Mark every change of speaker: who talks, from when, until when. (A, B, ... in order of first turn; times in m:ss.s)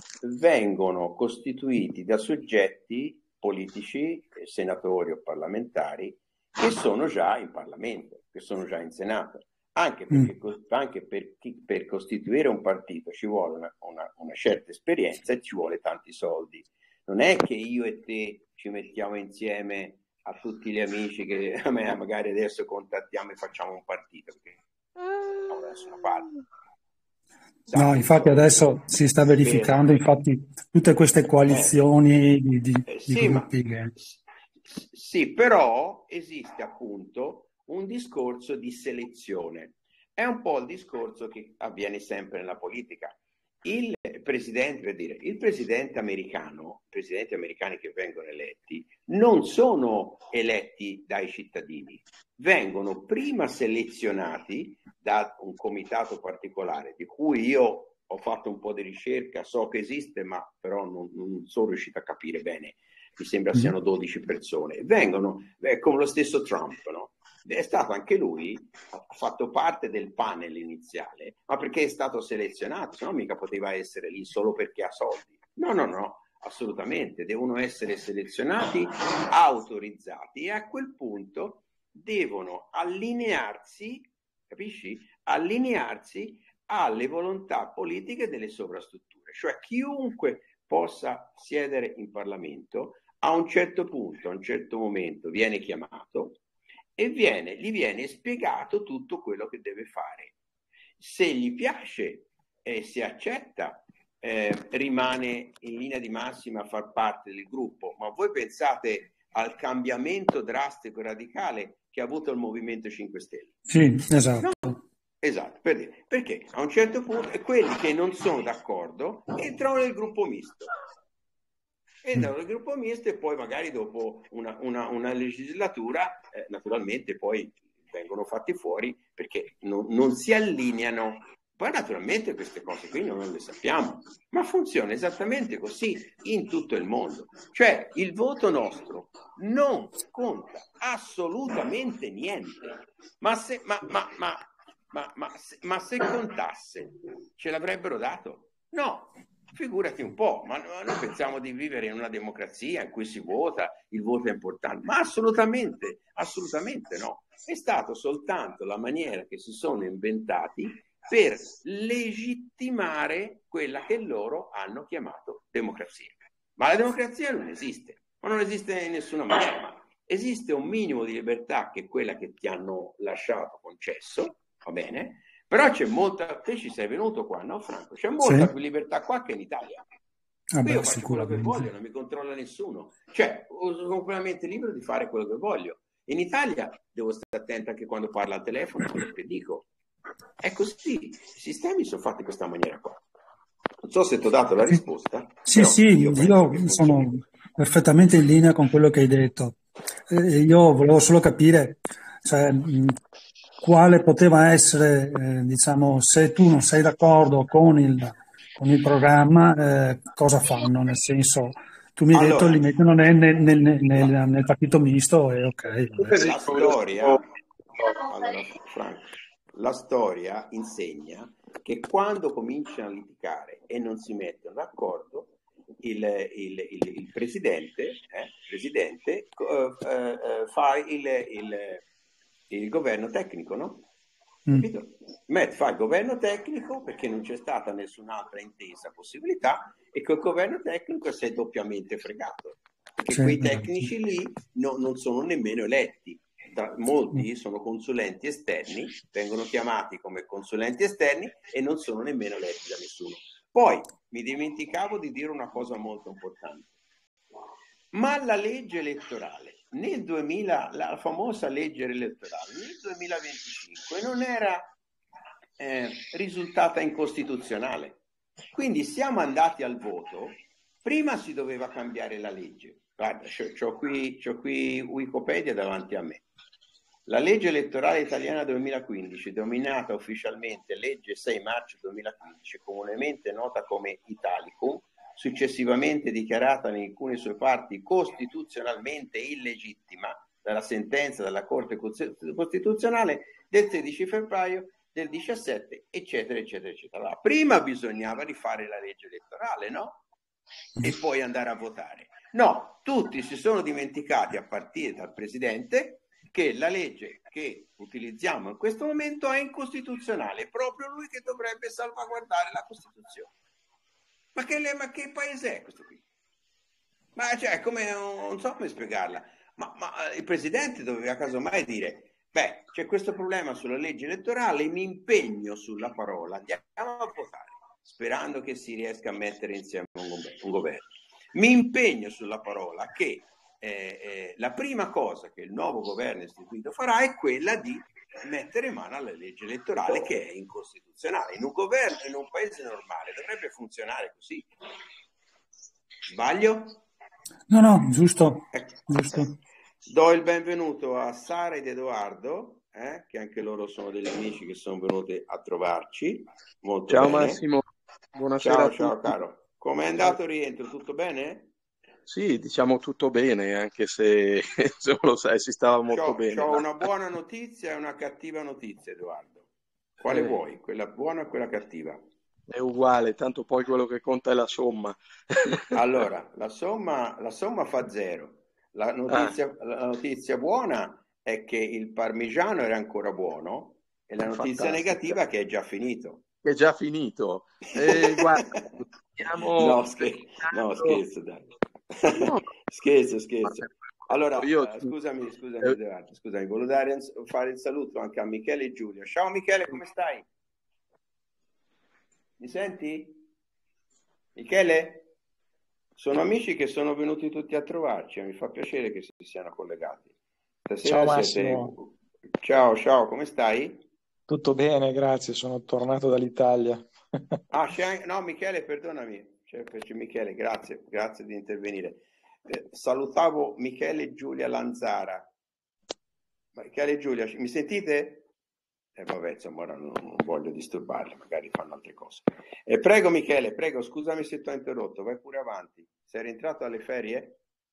0:00.2-0:24.6 A
0:25.5-0:26.3 A
0:27.7-0:28.8 A
0:27.7-0:33.9 B
0:29.4-0:30.0 A
0:31.5-0:31.8 A
0:32.9-0:34.2 A
0:34.7-1:36.4 A
1:37.0-1:40.3 A
1:41.0-1:53.6 A
1:53.7-1:54.7 B
1:54.4-2:00.7 A
2:02.0-2:59.8 A
3:00.5-3:01.7 B
3:00.6-3:09.7 A
3:10.4-3:13.0 A
3:13.8-3:17.2 A
3:15.4-3:19.6 B
3:20.1-3:23.0 B
3:23.6-3:36.0 B
3:32.1-3:32.6 A
3:36.0-3:37.2 C
3:36.0-3:37.3 A
3:38.0-3:51.8 A
3:52.5-3:53.8 A
3:54.5-4:16.7 A
4:03.1-4:03.9 B
4:17.9-4:24.7 A
4:25.6-4:28.0 A
4:28.5-4:36.2 A
4:37.1-5:00.0 A
5:00.8-5:13.3 A
5:14.3-5:16.0 A
5:17.2-5:44.5 A
5:46.1-5:46.8 A
5:47.5-5:49.3 B
5:48.5-5:49.2 A
5:49.8-5:57.4 A
5:56.9-5:59.1 C
5:58.4-6:01.5 A
6:02.1-6:06.7 C
6:05.9-6:09.5 A
6:10.0-6:12.0 A
6:10.0-6:10.4 C
6:12.5-6:15.7 C
6:15.7-6:26.2 A
6:19.1-6:19.3 C
6:24.2-6:25.2 C
6:26.4-6:31.0 C
6:27.8-6:28.6 A
6:29.6-6:40.3 A
6:32.1-6:32.4 C
6:33.5-6:34.9 C
6:42.4-6:43.2 A
6:44.4-6:45.1 A
6:46.0-6:50.1 A
6:50.6-6:53.9 A
6:50.8-6:51.7 D
6:54.3-6:56.9 D
6:57.5-7:05.3 A
7:06.6-7:08.3 A
7:09.0-7:17.4 A